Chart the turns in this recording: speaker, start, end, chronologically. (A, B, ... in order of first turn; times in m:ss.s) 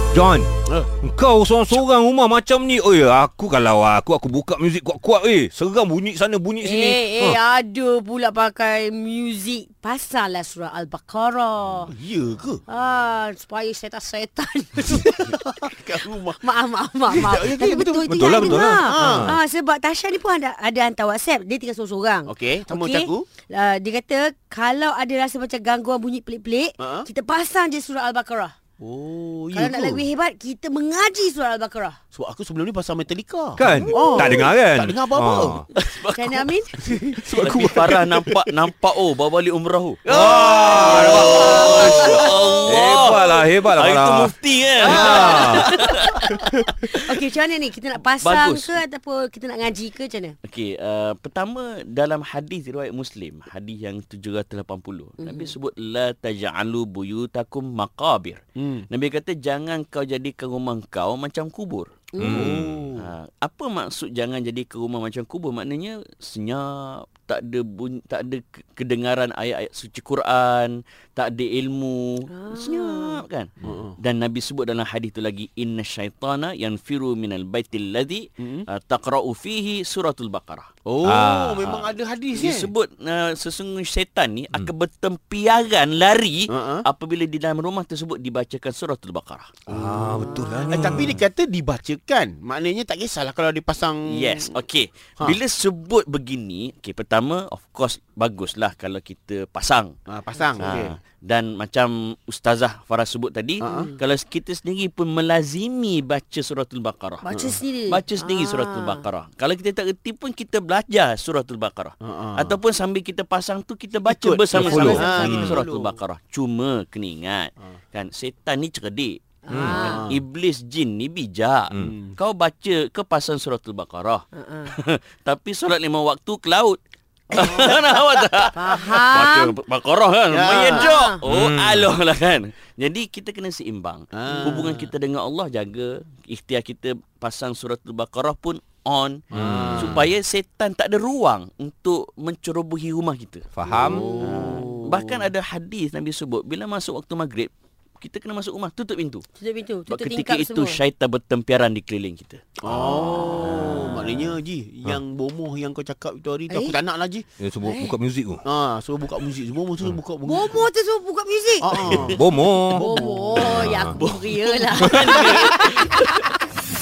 0:00.1-0:00.5 A
0:01.0-0:07.4 A
0:06.6-0:11.9 B
0:11.9-0:12.6 C
0:12.7-0:15.4 B
0:15.0-0:16.4 C
0:16.4-0:28.5 B
0:17.1-0:19.3 C
0:17.7-0:19.4 A
0:22.3-0:23.3 C
0:26.8-0:27.1 C
0:28.8-0:30.0 C
0:29.5-0:32.0 B
0:32.1-0:35.6 C
0:33.6-0:35.6 A
0:33.6-0:34.5 B
0:35.8-0:47.0 D
0:36.1-0:36.7 B
0:36.8-0:38.3 C
0:37.3-0:38.1 A
0:40.1-0:45.7 A
0:40.2-0:41.7 C
0:41.0-0:42.3 B
0:44.8-0:45.6 C
0:45.0-0:45.3 B
0:46.9-0:50.4 B
0:48.2-0:48.8 D
0:50.4-1:02.0 D
0:55.2-0:55.5 B
0:58.6-0:58.8 C
1:02.1-1:02.5 B
1:02.2-1:02.9 A
1:02.3-1:03.0 C
1:03.0-1:20.7 D
1:12.3-1:13.2 B
1:13.6-1:13.9 C
1:18.4-1:18.6 C
1:20.8-1:22.7 C
1:21.0-1:21.8 A
1:21.6-1:29.6 D
1:26.5-1:26.9 C
1:29.7-1:31.2 A
1:29.7-1:34.5 C
1:34.1-1:39.9 D
1:40.1-1:41.0 C
1:40.4-1:40.8 B
1:40.6-1:47.3 D
1:43.6-1:43.9 C
1:43.6-1:43.9 B
1:47.2-1:49.0 B
1:47.3-1:47.6 C
1:47.9-2:06.8 D
1:52.0-1:52.6 C
1:54.0-1:55.9 C
1:54.6-1:55.6 A
1:54.6-1:55.5 B
1:59.5-2:00.1 B
1:59.5-1:59.9 A
1:59.8-2:00.2 C
2:01.8-2:02.2 C
2:04.4-2:04.7 B
2:07.3-2:19.2 D
2:07.3-2:08.0 C
2:08.5-2:09.6 B
2:10.3-2:11.0 C
2:10.5-2:11.2 B
2:11.2-2:11.9 A
2:14.1-2:14.9 C
2:19.3-2:20.1 C
2:19.3-2:20.0 A
2:19.8-2:23.5 D
2:23.5-2:24.4 A
2:23.7-2:25.2 C
2:24.2-2:29.2 D
2:29.4-2:30.8 B
2:29.9-2:34.4 D
2:32.6-2:37.2 C
2:36.5-2:36.7 B
2:37.4-2:38.4 A
2:37.6-2:38.0 B
2:38.4-2:40.6 C
2:40.2-2:45.7 B
2:41.6-2:42.2 C
2:42.0-2:44.0 A
2:42.8-2:43.2 C
2:44.0-2:46.2 D
2:44.8-2:45.1 A